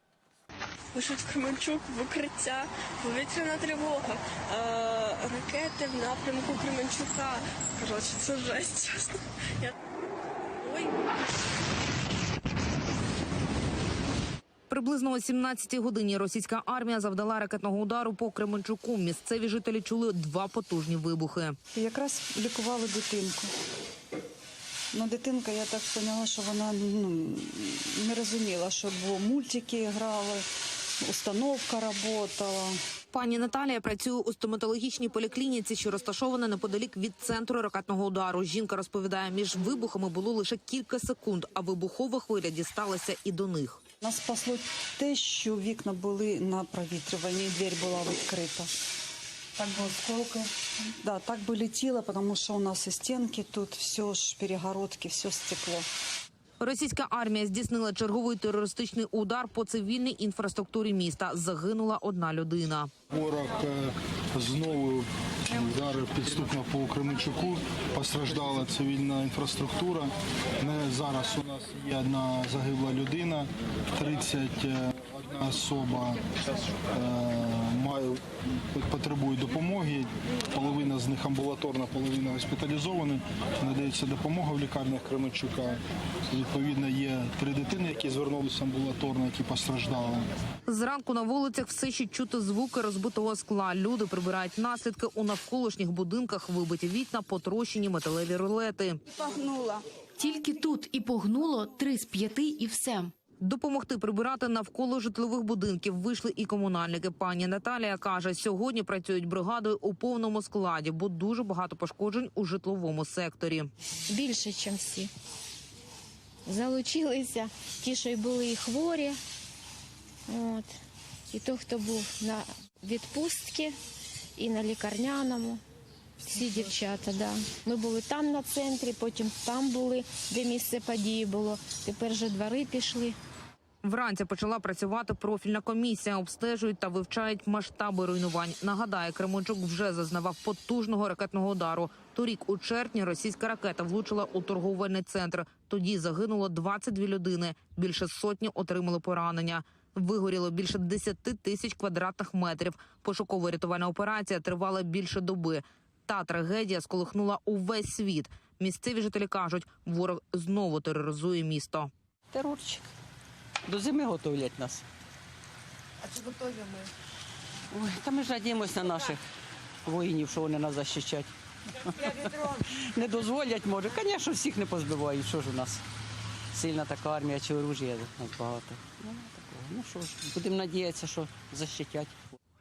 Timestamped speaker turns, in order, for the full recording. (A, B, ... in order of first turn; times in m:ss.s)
0:00.9-0:09.7 A
0:10.6-0:10.9 A
0:14.7-0:21.6 B
0:21.7-0:23.5 C
0:24.9-0:30.4 C
0:31.0-0:32.8 C
0:33.1-0:43.8 B
0:44.0-0:48.7 C
0:49.6-0:50.5 C
0:51.0-0:55.8 C
0:56.6-1:02.9 B
1:03.1-1:16.2 D
1:16.9-1:18.2 D
1:18.7-1:30.3 D
1:30.7-1:39.0 B
1:40.2-1:43.1 E
1:43.4-1:53.7 B
1:54.1-1:55.1 F
1:56.4-1:59.2 F
2:00.3-2:00.7 F
2:01.3-2:03.7 F
2:04.4-2:05.6 F
2:06.2-2:13.2 F
2:13.8-2:41.9 B
2:42.3-2:42.8 G
2:43.7-2:44.8 G
2:47.7-2:49.2 G
2:49.8-2:51.3 G
2:52.0-2:55.8 G
2:56.6-3:02.1 G